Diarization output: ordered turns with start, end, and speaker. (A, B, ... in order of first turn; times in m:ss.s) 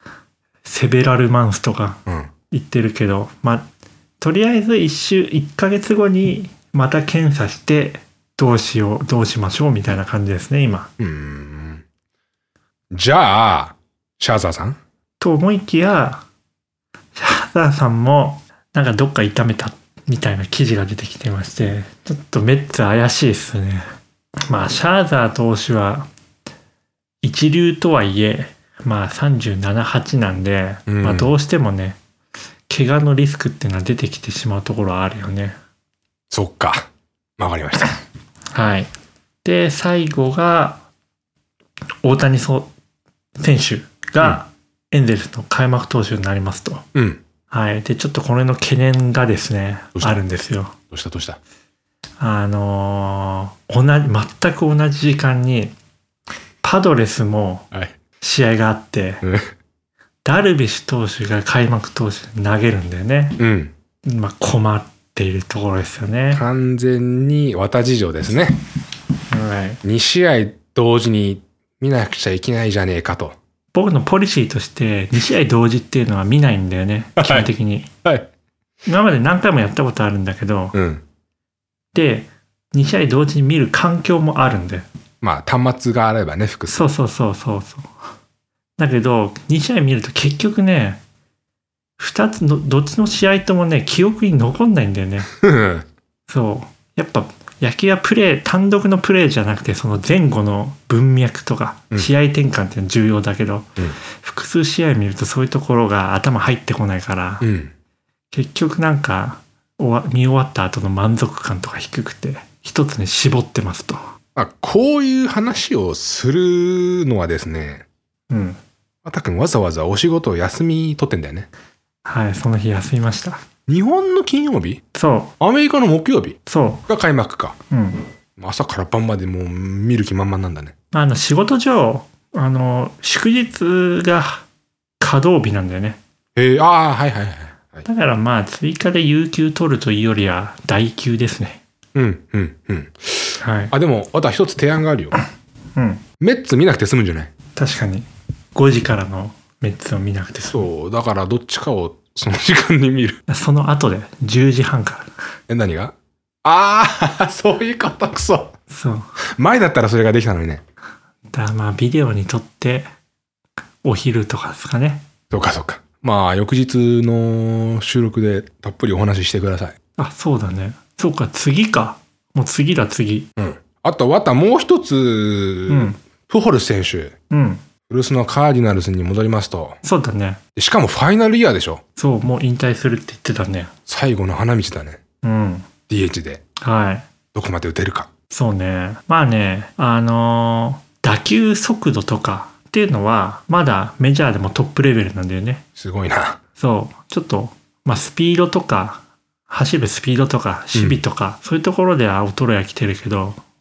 0:00.6-0:02.0 A
0:02.5-0:03.7 A
0:04.2-0:10.9 A
0:11.0-0:11.8 B
0:12.9-0:14.8 B
0:15.2-0:16.2 A
0:17.1-0:23.9 A
0:24.5-0:26.1 A
0:27.2-0:32.0 A
0:30.9-0:31.3 B
0:32.7-0:35.6 A
0:36.3-0:38.0 B
0:38.5-0:38.9 A
0:39.4-0:40.8 A
0:42.0-0:42.7 A
0:43.4-0:46.8 A
0:46.9-0:47.2 B
0:47.5-0:50.7 A
0:50.9-0:51.4 B
0:52.2-0:55.7 A
0:56.6-0:57.7 A
0:58.2-0:59.2 A
0:59.2-0:59.5 B
1:00.2-1:03.4 A
1:03.4-1:03.7 B
1:04.0-1:06.4 A
1:06.3-1:08.6 B
1:09.3-1:09.8 A
1:09.8-1:13.4 B
1:13.7-1:17.9 A
1:17.2-1:17.5 B
1:18.8-1:20.7 A
1:20.7-1:21.0 B
1:21.9-1:24.8 A
1:25.2-1:26.9 B
1:26.7-1:27.9 A
1:28.8-1:31.0 A
1:32.0-1:35.3 A
1:35.4-1:35.8 B
1:36.3-1:47.4 A
1:47.4-1:47.7 B
1:48.3-1:54.0 A
1:54.3-1:57.8 B
1:58.3-1:58.6 A
1:59.0-2:01.5 B
2:02.0-2:03.4 A
2:03.7-2:04.8 B
2:04.9-2:05.3 A
2:05.4-2:07.6 B
2:06.5-2:06.8 A
2:07.7-2:08.1 A
2:08.4-2:10.7 B
2:10.9-2:14.4 A
2:15.0-2:16.0 A
2:16.4-2:17.8 B
2:17.8-2:21.6 A
2:21.9-2:25.2 B
2:23.4-2:23.7 A
2:25.8-2:26.0 A
2:26.2-2:27.3 B
2:27.6-2:30.6 A
2:30.5-2:33.2 B
2:33.3-2:35.1 A
2:35.5-2:38.6 B
2:38.7-2:39.2 A
2:39.2-2:40.6 B
2:41.3-2:42.9 A
2:43.8-2:45.0 A
2:45.3-2:49.7 B
2:50.0-2:53.3 A
2:53.4-2:57.1 B
2:55.7-2:56.0 A
2:57.3-2:57.6 A
2:57.9-2:59.8 B
2:59.8-3:00.4 A
3:00.6-3:01.8 B
3:02.0-3:03.7 A
3:03.9-3:05.0 B
3:05.2-3:05.7 A
3:05.9-3:06.4 B
3:06.6-3:07.1 A
3:07.3-3:08.1 B
3:08.3-3:15.6 A
3:15.8-3:16.4 B
3:16.6-3:23.4 A
3:20.7-3:21.0 B